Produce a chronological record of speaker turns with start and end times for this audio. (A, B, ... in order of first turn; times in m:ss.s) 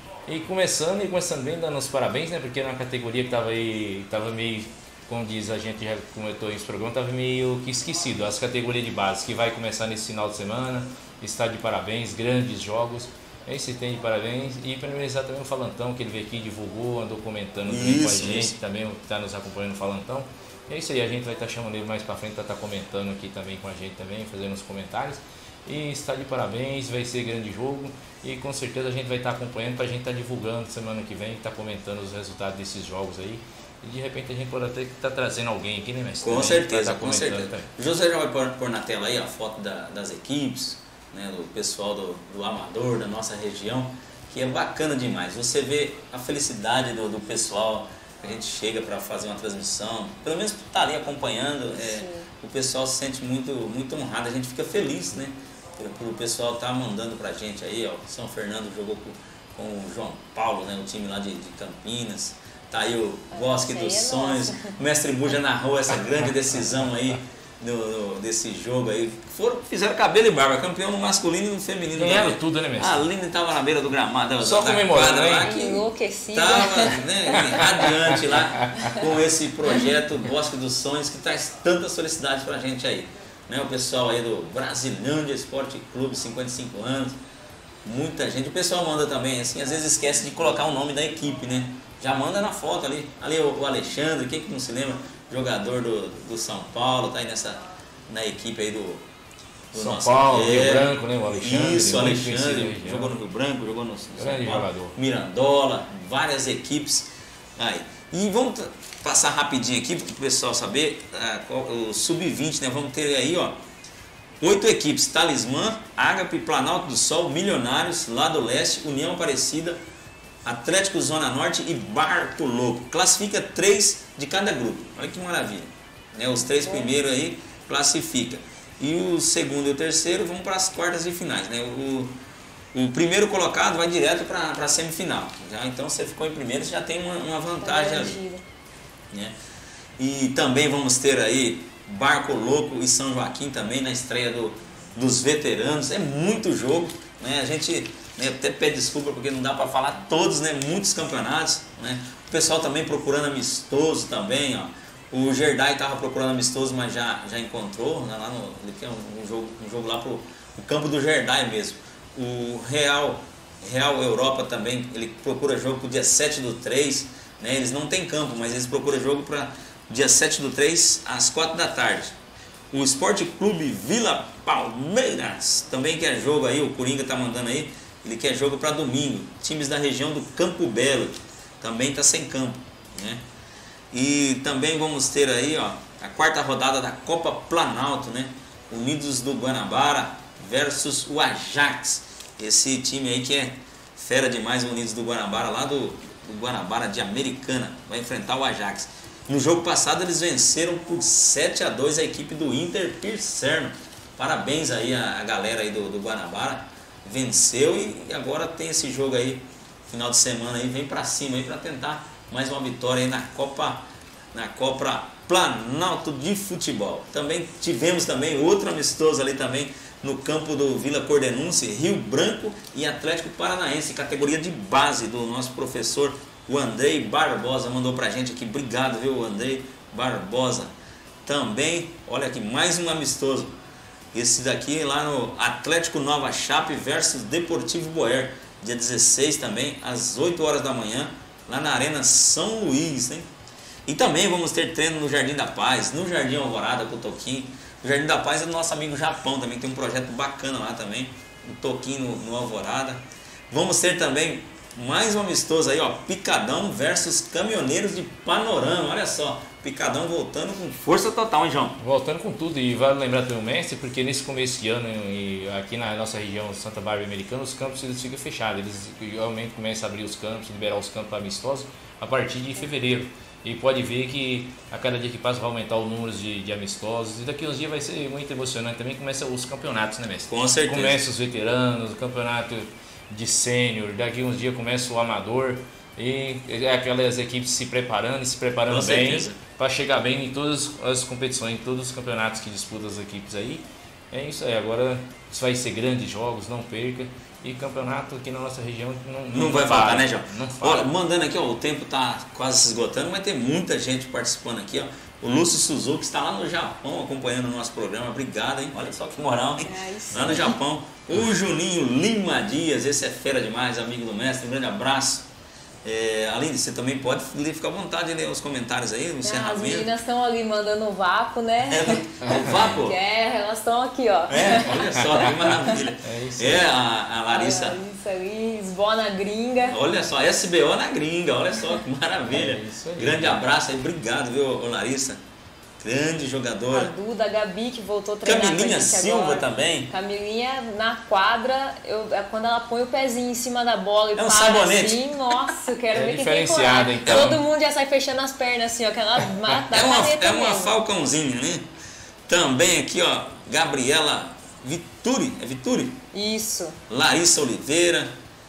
0:00.3-0:37.7 A
0:17.7-0:18.6 B
0:36.2-1:27.2 B
0:51.8-0:52.3 C
1:03.3-1:04.8 C
1:12.0-1:13.1 A
1:14.4-1:15.5 A
1:15.4-1:17.7 C
1:17.6-1:18.9 A
1:18.8-1:19.0 C
1:27.8-1:39.0 B
1:39.7-1:53.6 B
1:39.8-1:43.2 A
1:44.2-1:45.0 A
1:54.4-1:59.8 B
2:00.4-2:12.1 B
2:06.4-2:07.0 C
2:12.7-2:18.2 B
2:17.6-2:18.4 C
2:20.0-2:52.1 B
2:52.7-3:03.2 B
3:03.9-3:50.7 B
3:51.2-3:53.5 B
3:54.1-4:03.3 B
4:03.9-4:21.8 B
4:21.8-5:00.9 A
4:40.3-4:41.0 B
4:48.7-4:49.4 B
4:59.3-5:15.3 B
5:09.6-5:10.6 C
5:15.8-5:19.9 B
5:19.2-5:25.1 C
5:21.7-5:23.0 B
5:24.3-5:27.8 B
5:25.0-5:26.7 A
5:27.3-5:29.8 C
5:29.7-5:35.2 B
5:32.3-5:33.4 A
5:35.8-5:36.9 B
5:36.7-5:50.8 C
5:38.2-5:39.9 B
5:44.2-5:45.3 B
5:45.9-5:47.4 A
5:47.0-5:47.4 B
5:49.7-5:51.6 B
5:52.3-5:56.0 B
5:56.1-5:56.8 C
5:56.9-5:58.1 B